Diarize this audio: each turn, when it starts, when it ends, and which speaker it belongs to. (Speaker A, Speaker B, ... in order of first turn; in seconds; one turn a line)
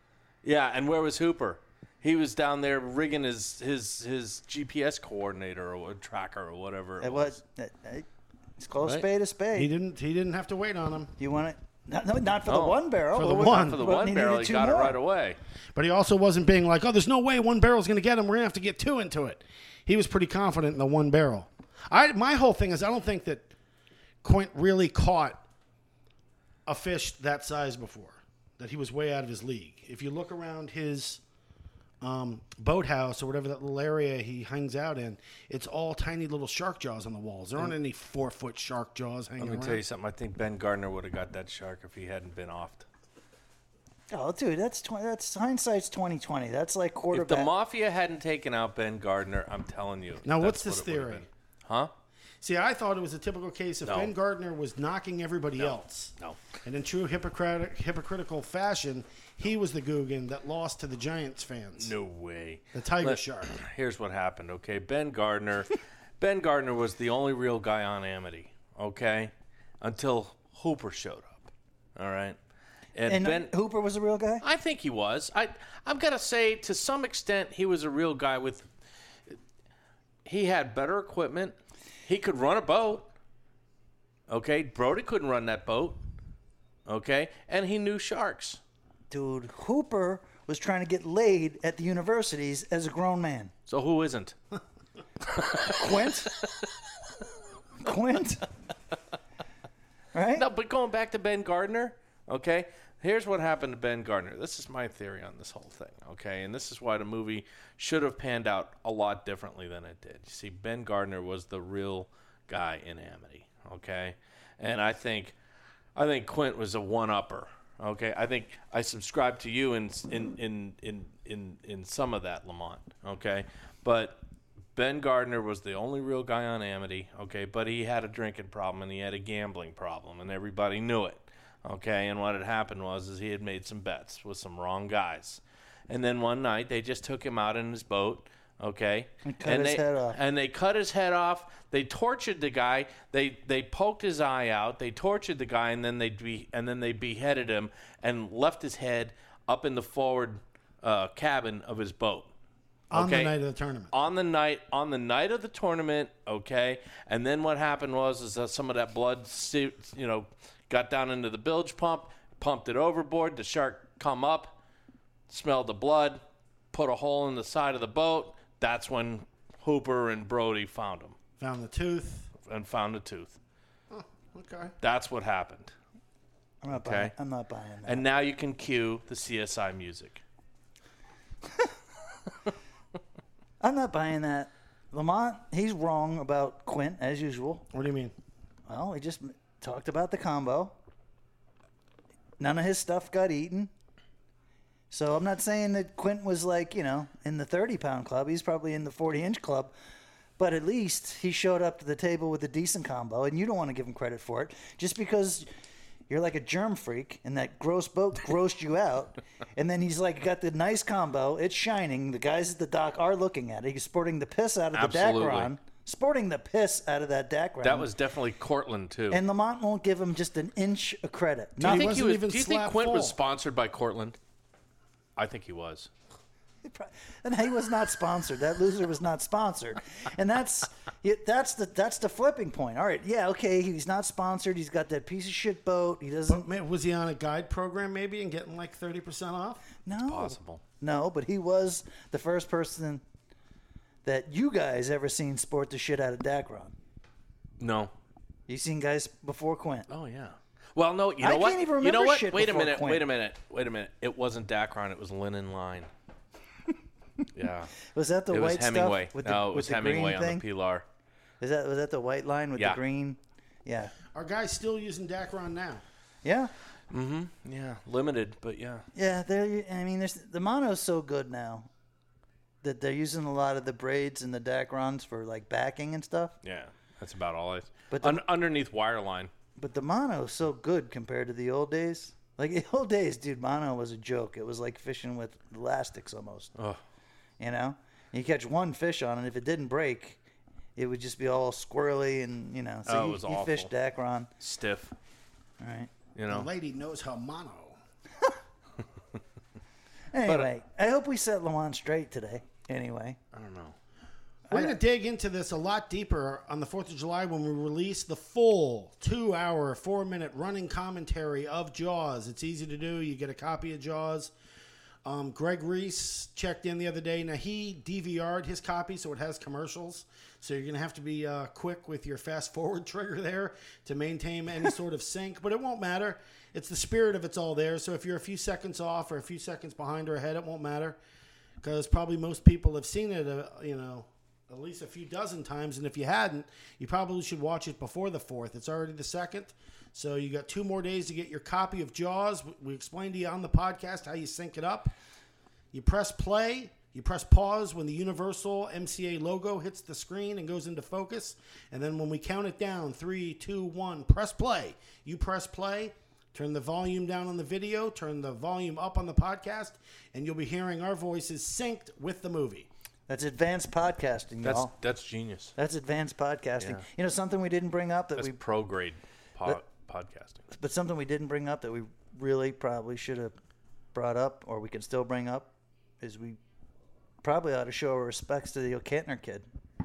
Speaker A: 0.4-7.4
Speaker B: 7.0-9.7
Speaker C: 9.5-11.1
Speaker B: 11.2-15.0
Speaker A: 12.5-15.4
Speaker C: 13.1-13.9
Speaker C: 15.7-23.5
Speaker C: 24.2-25.4
Speaker C: 26.6-31.2
Speaker C: 32.0-39.8
Speaker A: 39.4-42.9
Speaker B: 44.1-47.5
Speaker A: 47.1-51.9
Speaker C: 50.2-51.2
Speaker C: 52.4-61.9
Speaker A: 53.8-54.1
Speaker A: 55.6-56.4
Speaker A: 61.8-72.4
Speaker C: 62.7-63.6
Speaker A: 72.9-73.5
Speaker B: 73.1-74.4
Speaker A: 74.4-78.7
Speaker A: 80.2-83.1
Speaker A: 84.3-86.0
Speaker A: 86.9-88.6
Speaker B: 89.1-93.5
Speaker A: 93.7-94.3
Speaker A: 95.3-96.7
Speaker B: 95.6-96.3
Speaker B: 97.8-98.5
Speaker B: 100.1-100.5
Speaker A: 100.3-115.3
Speaker A: 116.0-124.2
Speaker A: 124.8-152.3
Speaker B: 139.2-140.2
Speaker A: 152.9-153.3
Speaker C: 152.9-153.9
Speaker A: 153.9-164.6
Speaker A: 165.3-166.2
Speaker A: 166.7-171.2
Speaker C: 171.4-172.3
Speaker A: 172.4-173.4
Speaker C: 173.9-174.7
Speaker A: 174.8-175.7
Speaker B: 176.6-178.1
Speaker A: 176.7-177.1
Speaker A: 177.8-180.2
Speaker B: 183.6-187.7
Speaker C: 187.7-188.1
Speaker B: 188.7-190.7
Speaker B: 192.4-193.7
Speaker B: 194.9-199.7
Speaker B: 200.4-205.4
Speaker B: 206.1-217.9
Speaker A: 214.7-215.5
Speaker A: 217.6-219.2
Speaker B: 219.1-221.9
Speaker A: 221.6-224.2
Speaker C: 221.6-223.2
Speaker A: 225.2-225.9
Speaker B: 226.6-236.4
Speaker C: 236.3-239.7
Speaker B: 239.8-243.0
Speaker A: 240.0-240.6
Speaker B: 244.0-246.7
Speaker A: 247.6-247.9
Speaker B: 248.5-249.9
Speaker A: 249.9-255.9
Speaker B: 251.2-253.0
Speaker A: 257.3-257.7
Speaker B: 257.9-260.4
Speaker A: 258.3-260.8
Speaker B: 261.4-263.9
Speaker C: 264.1-265.8
Speaker B: 266.2-266.5
Speaker A: 266.9-268.9
Speaker B: 268.9-271.7
Speaker B: 272.6-276.4
Speaker A: 276.4-279.3
Speaker B: 277.9-278.2
Speaker B: 279.6-286.5
Speaker B: 287.4-290.2
Speaker B: 290.8-294.3
Speaker A: 292.9-293.7
Speaker A: 294.4-294.9
Speaker B: 295.6-295.9
Speaker A: 296.1-296.5
Speaker C: 296.3-297.8
Speaker B: 300.1-303.2
Speaker A: 303.3-303.7
Speaker B: 304.5-304.8
Speaker C: 304.5-314.3
Speaker C: 315.0-331.0
Speaker C: 331.6-344.9
Speaker C: 345.7-362.7
Speaker B: 363.1-364.7
Speaker A: 364.4-365.5
Speaker B: 365.6-368.4
Speaker A: 368.2-370.4
Speaker B: 370.5-373.3
Speaker B: 373.9-375.5
Speaker B: 376.0-376.4
Speaker B: 377.2-379.4